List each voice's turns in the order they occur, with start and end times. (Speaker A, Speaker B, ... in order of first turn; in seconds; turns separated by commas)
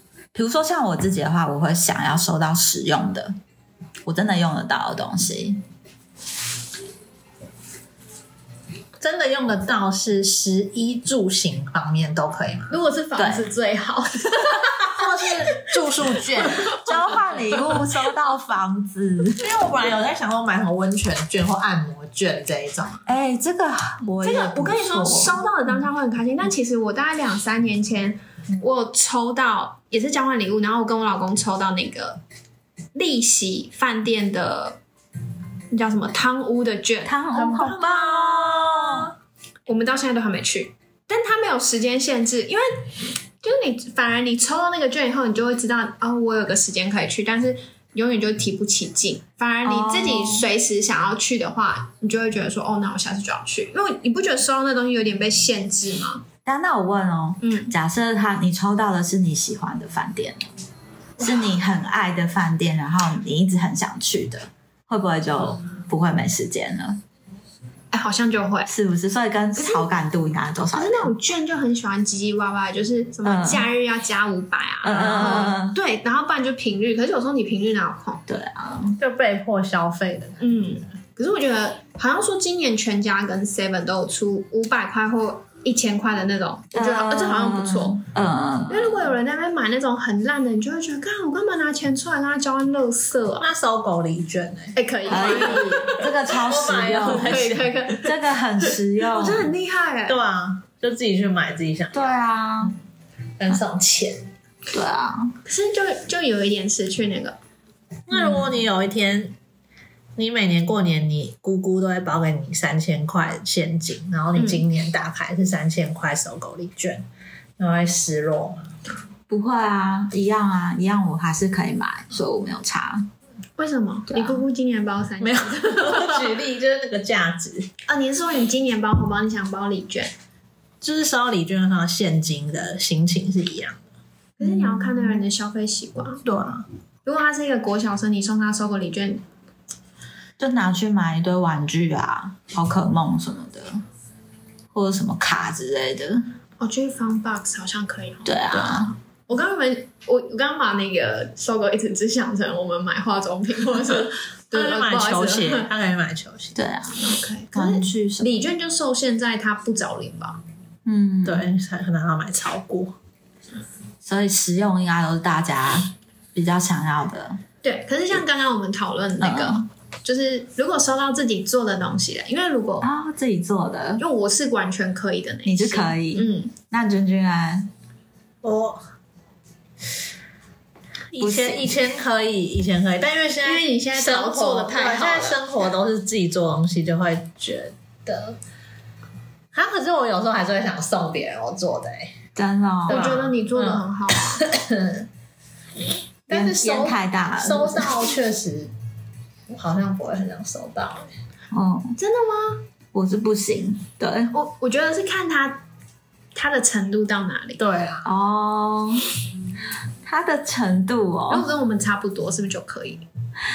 Speaker A: 0.3-3.3, Speaker A: 4.0-5.6, Speaker B: 9.0-12.7, Speaker C: 12.7-14.8, Speaker A: 13.2-13.4, Speaker B: 14.8-16.8, Speaker A: 16.8-19.4, Speaker C: 17.6-17.9, Speaker B: 19.4-23.0, Speaker A: 23.0-25.4, Speaker C: 24.2-32.2, Speaker C: 32.9-34.8, Speaker C: 35.7-37.2, Speaker A: 37.0-39.1, Speaker B: 37.4-39.0, Speaker C: 39.6-56.2, Speaker A: 49.6-50.5, Speaker A: 56.4-60.5, Speaker C: 57.4-57.7, Speaker A: 61.2-67.0, Speaker C: 67.9-68.7, Speaker A: 68.7-71.1, Speaker C: 69.5-69.9, Speaker C: 70.7-78.2, Speaker A: 73.2-73.7, Speaker A: 74.8-75.8, Speaker A: 78.3-79.0, Speaker B: 79.0-80.4, Speaker C: 80.4-88.0, Speaker A: 86.7-89.1, Speaker C: 88.7-93.5, Speaker B: 93.4-97.7, Speaker C: 94.7-95.7, Speaker A: 95.1-99.5, Speaker C: 97.0-98.1, Speaker C: 99.1-100.2, Speaker B: 100.1-102.1, Speaker A: 101.9-102.8, Speaker B: 103.4-104.3, Speaker A: 104.7-105.3, Speaker C: 105.4-107.3, Speaker B: 108.1-109.3, Speaker A: 108.1-108.5, Speaker B: 110.2-117.0, Speaker C: 114.3-114.6, Speaker B: 117.6-118.7, Speaker A: 119.3-123.1, Speaker C: 123.6-126.3, Speaker A: 124.1-124.4, Speaker B: 125.2-127.7, Speaker C: 127.8-130.1, Speaker B: 130.8-133.8, Speaker C: 134.4-136.2, Speaker A: 134.4-135.2, Speaker B: 136.2-136.6, Speaker C: 137.0-139.2, Speaker A: 140.4-143.8, Speaker A: 144.7-146.2, Speaker C: 146.6-155.7, Speaker A: 148.2-148.9, Speaker B: 154.5-156.6, Speaker A: 156.5-158.4, Speaker C: 156.9-160.4, Speaker A: 160.8-161.4, Speaker B: 161.2-162.9, Speaker A: 164.0-167.4, Speaker C: 167.6-172.9, Speaker A: 169.2-169.6, Speaker A: 172.8-174.0, Speaker C: 174.0-176.5, Speaker A: 175.4-177.7, Speaker B: 178.4-178.8, Speaker B: 181.1-188.4, Speaker A: 181.2-181.8, Speaker C: 183.4-185.4, Speaker B: 189.5-192.1, Speaker A: 192.3-193.1, Speaker C: 192.9-194.4, Speaker B: 192.9-195.1, Speaker B: 196.3-198.7, Speaker A: 196.3-197.9, Speaker B: 199.5-201.1, Speaker A: 201.5-201.9, Speaker C: 202.0-202.6, Speaker A: 202.9-204.3, Speaker C: 204.3-205.6, Speaker C: 206.3-207.6, Speaker B: 207.6-208.1, Speaker A: 208.0-209.0, Speaker A: 210.0-211.5, Speaker C: 211.3-213.0